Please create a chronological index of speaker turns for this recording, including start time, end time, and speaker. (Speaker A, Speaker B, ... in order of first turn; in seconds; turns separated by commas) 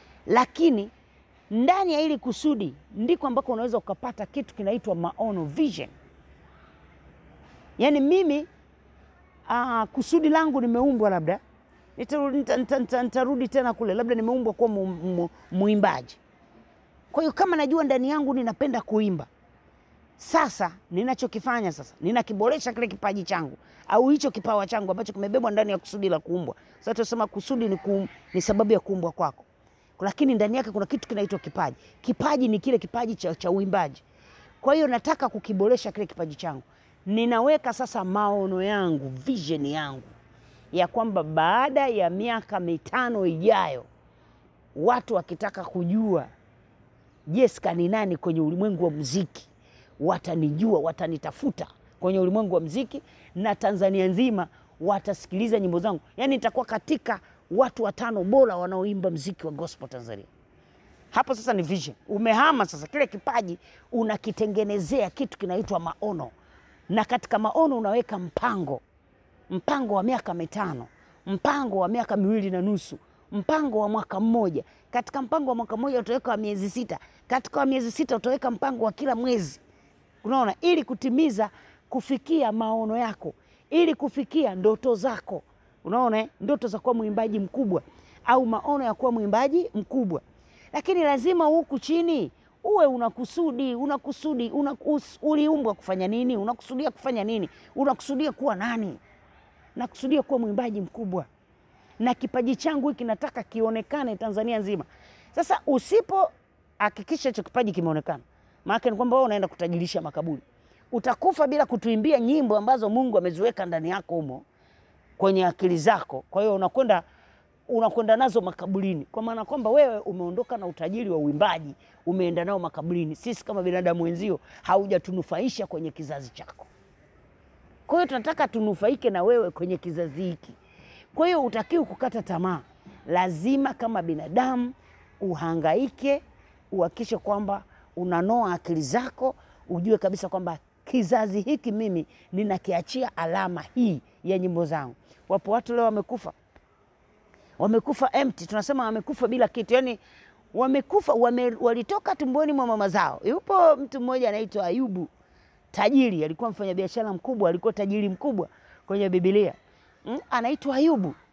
Speaker A: 0.3-0.9, Speaker A: 1.5-5.9, Speaker A: 7.8-8.5, Speaker A: 9.5-11.4, Speaker A: 12.0-16.2, Speaker A: 17.1-19.3, Speaker A: 20.2-29.4, Speaker A: 30.0-34.0, Speaker A: 34.6-40.1, Speaker A: 40.7-43.9, Speaker A: 44.7-46.3, Speaker A: 47.3-60.3, Speaker A: 61.1-66.3, Speaker A: 66.9-68.8, Speaker A: 69.5-79.6, Speaker A: 80.2-99.0, Speaker A: 99.8-101.3, Speaker A: 102.0-114.4, Speaker A: 115.2-117.0, Speaker A: 117.7-126.7, Speaker A: 127.9-130.6, Speaker A: 131.1-146.3, Speaker A: 147.6-150.0, Speaker A: 150.5-155.1, Speaker A: 155.7-161.1